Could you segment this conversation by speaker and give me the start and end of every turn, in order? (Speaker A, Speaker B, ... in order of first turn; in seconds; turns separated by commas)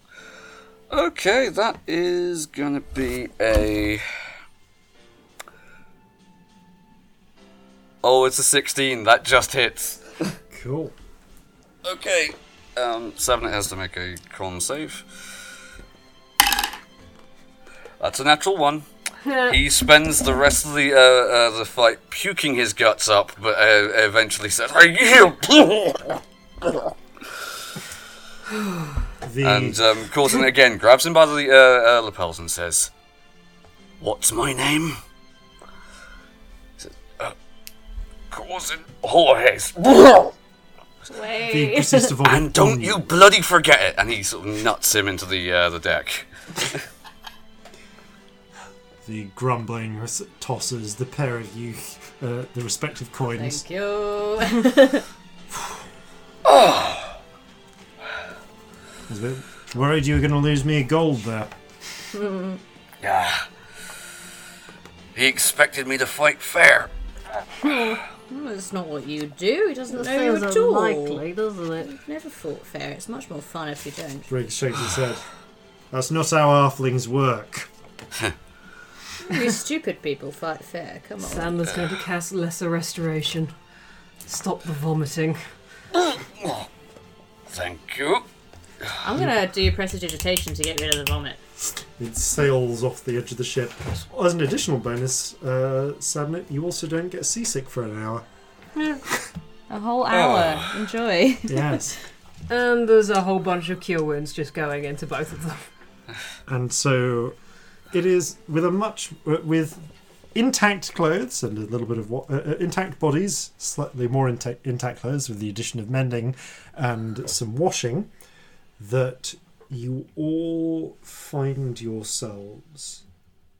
Speaker A: 0.9-4.0, Speaker A: 8.0-10.3, Speaker B: 10.5-10.9, Speaker A: 11.8-15.1, Speaker A: 18.0-26.8, Speaker C: 19.2-19.5, Speaker B: 29.2-29.8, Speaker A: 29.4-32.9, Speaker A: 34.0-35.0, Speaker A: 36.8-37.4, Speaker A: 38.3-40.3, Speaker D: 41.1-42.1, Speaker B: 41.5-43.1, Speaker A: 42.2-46.8, Speaker B: 49.0-53.6, Speaker D: 53.3-55.0, Speaker A: 56.5-57.2, Speaker B: 59.1-61.5, Speaker D: 62.1-62.6, Speaker A: 63.0-63.4, Speaker A: 65.1-66.9, Speaker D: 67.6-71.2, Speaker C: 69.9-71.9, Speaker D: 71.8-74.3, Speaker B: 74.3-75.2, Speaker B: 75.9-77.7, Speaker D: 79.3-81.5, Speaker C: 81.2-81.6, Speaker E: 81.5-83.5, Speaker A: 81.7-82.0, Speaker C: 84.3-84.9, Speaker E: 84.4-85.4, Speaker A: 85.9-86.7, Speaker A: 87.5-88.2, Speaker D: 89.0-91.4, Speaker B: 92.0-98.2, Speaker D: 99.7-101.8, Speaker A: 100.1-100.7, Speaker B: 101.5-102.0, Speaker C: 102.5-103.0, Speaker E: 102.5-105.5, Speaker B: 106.5-107.3, Speaker B: 107.9-118.1, Speaker B: 118.8-123.0